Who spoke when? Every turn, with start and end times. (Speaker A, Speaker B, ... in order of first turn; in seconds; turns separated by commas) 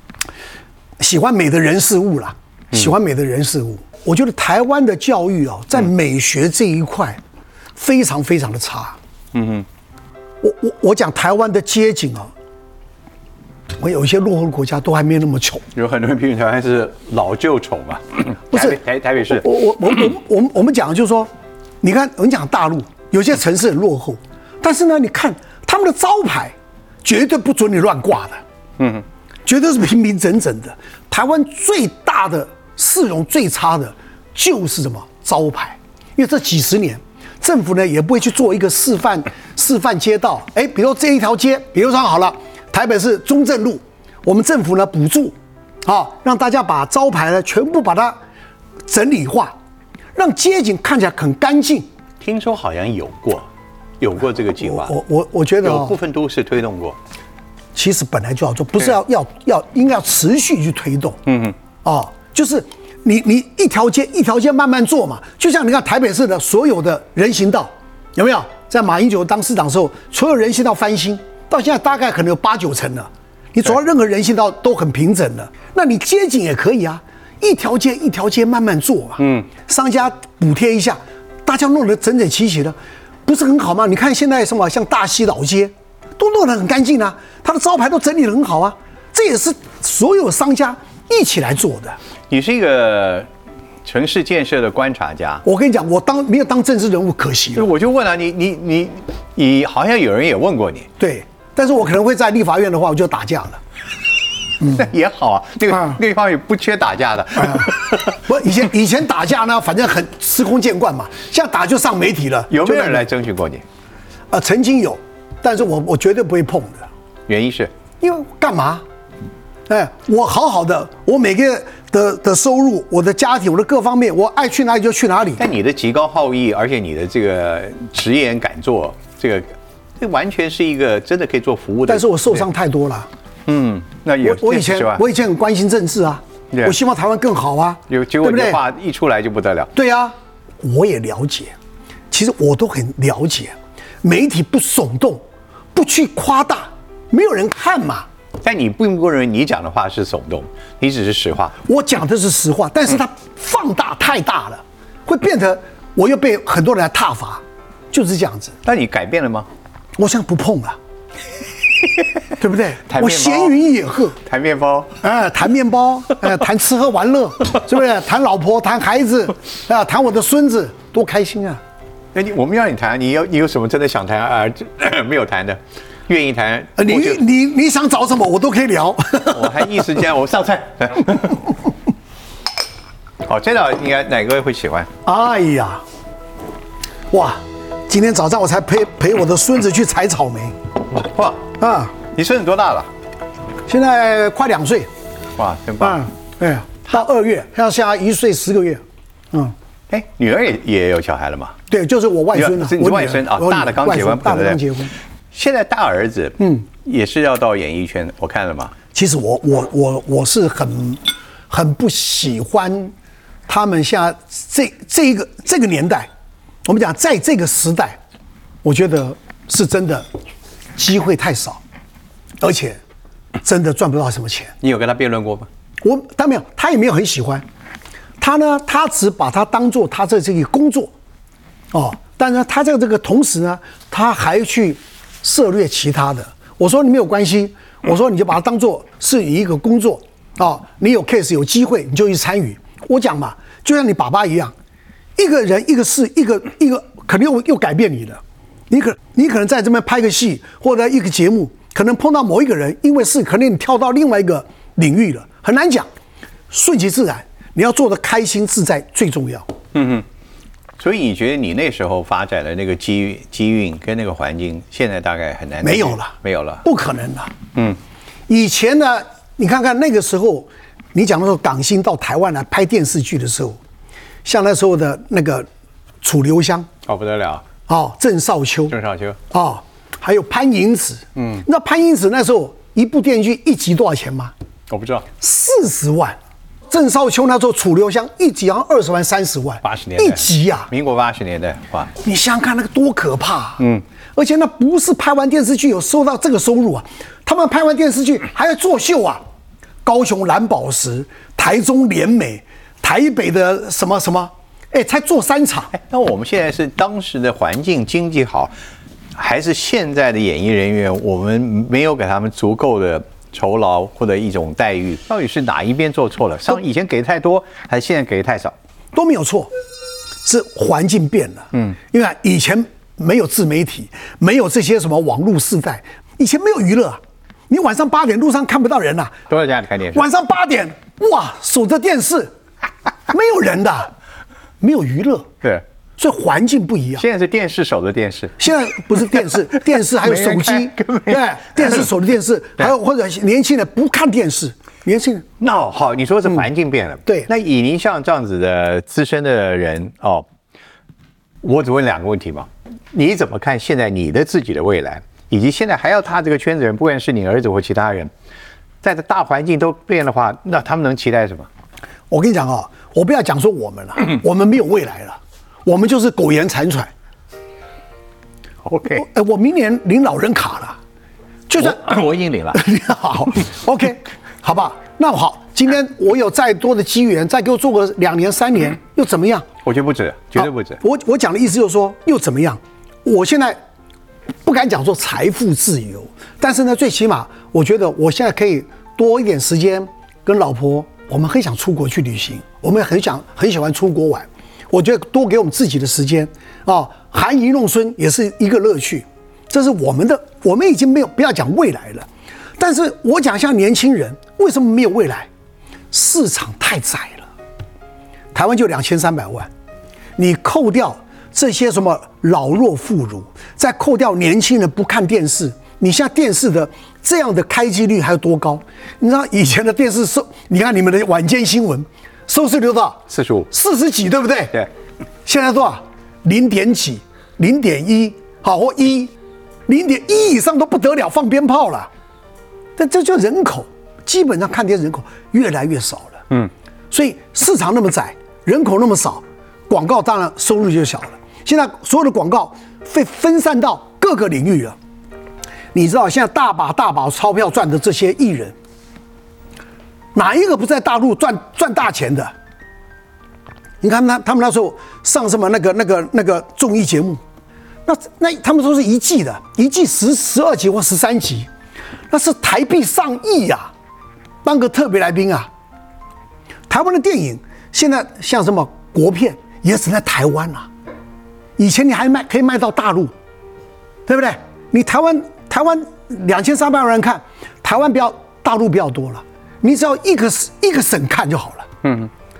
Speaker A: 1.0-7.2, Speaker A: 7.8-9.0, Speaker B: 9.3-9.7, Speaker A: 10.4-12.3, Speaker A: 13.8-15.6, Speaker B: 15.7-19.5, Speaker A: 18.5-21.3, Speaker A: 21.8-28.4, Speaker B: 28.8-29.0, Speaker A: 29.4-48.2, Speaker A: 48.9-49.5, Speaker A: 50.1-51.9, Speaker B: 52.2-53.5, Speaker B: 54.0-54.9, Speaker A: 54.6-56.0, Speaker B: 55.6-57.0, Speaker A: 57.7-61.2, Speaker B: 61.2-61.5, Speaker A: 61.8-92.0, Speaker B: 79.2-79.5, Speaker B: 92.3-93.3, Speaker B: 93.8-95.4, Speaker A: 95.4-97.7, Speaker B: 97.5-100.9, Speaker A: 101.0-103.6, Speaker B: 104.6-108.1, Speaker A: 107.4-113.0, Speaker B: 112.5-113.6, Speaker A: 114.3-116.9, Speaker B: 117.3-117.7, Speaker A: 118.0-118.8, Speaker A: 119.7-125.4, Speaker B: 125.4-132.4, Speaker A: 131.9-133.1, Speaker B: 133.5-135.0, Speaker A: 134.2-138.6, Speaker B: 137.9-139.7, Speaker A: 139.7-141.5, Speaker A: 142.1-148.1, Speaker B: 148.4-151.5, Speaker A: 151.6-158.5, Speaker B: 158.6-159.5, Speaker A: 160.0-160.8, Speaker A: 162.4-164.2, Speaker B: 162.8-163.6, Speaker B: 164.2-164.9, Speaker A: 165.0-171.6, Speaker B: 172.1-177.2, Speaker A: 176.8-179.8, Speaker B: 179.3-181.4, Speaker B: 183.2-184.9, Speaker A: 185.0-185.8, Speaker A: 187.1-190.6, Speaker B: 190.9-191.5, Speaker A: 191.6-191.9, Speaker B: 192.0-192.9, Speaker A: 193.7-194.9, Speaker B: 195.4-196.0, Speaker A: 195.8-199.5, Speaker B: 199.9-201.6, Speaker A: 201.7-204.9, Speaker B: 202.3-204.6, Speaker B: 205.3-208.7, Speaker A: 206.4-206.6, Speaker A: 208.9-212.9, Speaker A: 213.5-216.1, Speaker A: 216.6-218.0, Speaker A: 218.6-220.1, Speaker A: 220.8-221.6, Speaker A: 222.4-222.8, Speaker A: 223.4-224.6, Speaker B: 224.6-225.5, Speaker A: 225.8-227.4, Speaker A: 228.2-230.9, Speaker A: 231.7-244.5, Speaker A: 245.2-255.9, Speaker A: 256.5-259.5, Speaker B: 259.7-260.0, Speaker B: 260.8-266.6, Speaker A: 265.6-267.3, Speaker A: 268.3-273.6, Speaker A: 274.2-275.5, Speaker A: 276.0-276.7, Speaker B: 276.9-277.4, Speaker A: 277.7-278.8, Speaker B: 278.7-279.2, Speaker A: 279.3-284.3, Speaker B: 281.2-281.4, Speaker B: 284.7-285.1, Speaker A: 285.2-286.2, Speaker A: 286.7-290.7, Speaker B: 289.6-291.9, Speaker A: 292.0-293.6, Speaker B: 293.6-293.8, Speaker A: 294.1-299.2, Speaker A: 299.8-305.7, Speaker B: 305.7-308.5, Speaker B: 309.1-318.5, Speaker A: 318.9-319.5, Speaker A: 320.2-329.1, Speaker B: 329.3-330.0, Speaker A: 329.9-332.3, Speaker A: 333.1-333.9, Speaker A: 334.6-335.3, Speaker A: 336.0-337.0, Speaker B: 337.0-338.4, Speaker A: 338.4-345.2, Speaker B: 339.1-341.9, Speaker B: 345.4-350.2, Speaker B: 351.4-358.1, Speaker B: 358.8-361.5, Speaker A: 362.1-366.9, Speaker B: 368.6-369.0, Speaker A: 368.9-370.8, Speaker A: 371.5-371.9, Speaker B: 371.6-372.6, Speaker A: 372.5-379.4, Speaker B: 379.6-380.8, Speaker A: 380.3-383.6, Speaker A: 384.4-405.3, Speaker A: 405.9-407.3, Speaker A: 408.3-409.5, Speaker A: 410.2-424.5, Speaker B: 423.1-423.5, Speaker A: 425.2-429.1, Speaker A: 429.7-431.9, Speaker A: 432.8-436.3, Speaker A: 436.9-444.8, Speaker A: 445.7-448.6, Speaker A: 450.1-452.3, Speaker A: 453.8-457.2, Speaker A: 457.9-461.5, Speaker A: 462.1-463.7, Speaker A: 464.4-465.5, Speaker A: 466.7-470.7, Speaker A: 471.6-473.1, Speaker A: 474.1-481.7, Speaker B: 481.8-482.1